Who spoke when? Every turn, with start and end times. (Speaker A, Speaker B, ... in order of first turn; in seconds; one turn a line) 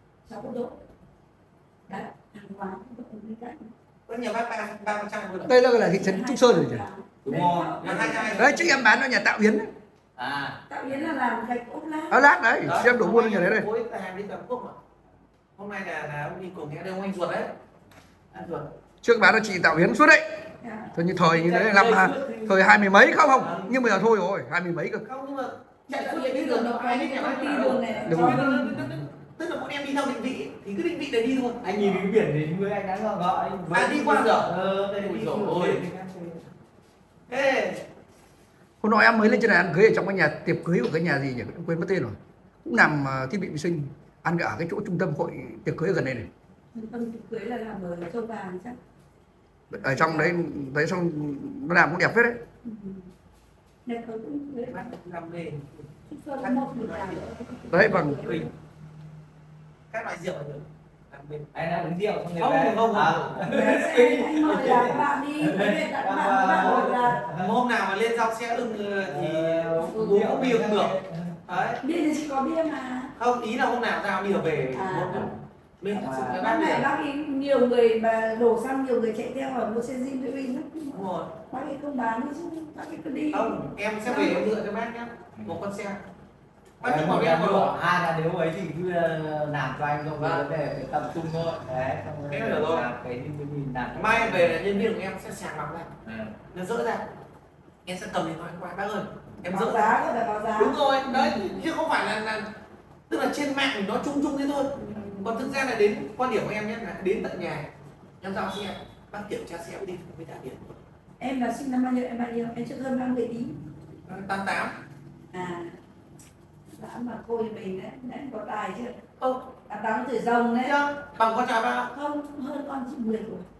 Speaker A: 0.3-0.8
Speaker A: 1.9-3.7
Speaker B: 4.1-5.5
Speaker C: 5.4-6.8
Speaker A: 5.5-8.7
Speaker D: 7.2-8.3
Speaker B: 7.8-8.7
Speaker C: 8.3-9.7
Speaker D: 10.2-11.2
Speaker A: 10.7-12.2
Speaker C: 12.1-13.7
Speaker B: 12.6-14.8
Speaker B: 15.6-17.6
Speaker B: 18.3-18.7
Speaker C: 19.0-25.0
Speaker A: 20.6-20.9
Speaker D: 21.2-23.7
Speaker B: 25.0-32.0
Speaker A: 25.9-28.8
Speaker C: 28.0-28.6
Speaker D: 31.6-36.5
Speaker B: 33.7-35.8
Speaker B: 37.3-37.9
Speaker C: 38.8-46.3
Speaker A: 46.7-48.8
Speaker C: 49.7-52.4
Speaker A: 52.6-53.1
Speaker A: 53.9-54.9
Speaker B: 54.6-55.9
Speaker A: 56.1-58.5
Speaker B: 56.4-57.3
Speaker C: 57.7-58.5
Speaker B: 59.9-61.5
Speaker D: 61.5-67.5
Speaker B: 62.4-63.6
Speaker A: 63.5-67.2
Speaker B: 64.5-64.9
Speaker B: 66.6-71.8
Speaker D: 69.0-71.4
Speaker A: 71.8-73.1
Speaker B: 73.2-76.9
Speaker A: 74.7-75.3
Speaker A: 75.9-84.5
Speaker B: 80.9-81.4
Speaker B: 83.3-86.0
Speaker B: 86.8-87.8
Speaker D: 86.8-94.9
Speaker B: 90.2-90.5
Speaker B: 92.3-92.9
Speaker B: 93.9-95.9
Speaker D: 96.0-96.4
Speaker B: 96.5-97.0
Speaker B: 97.8-102.5
Speaker A: 99.5-101.6
Speaker B: 103.1-110.8
Speaker A: 104.8-105.5
Speaker A: 111.2-113.6
Speaker B: 114.0-114.8
Speaker A: 115.3-115.8
Speaker A: 116.7-119.0
Speaker B: 119.2-119.5
Speaker A: 119.7-120.8
Speaker B: 120.6-121.9
Speaker A: 121.9-123.5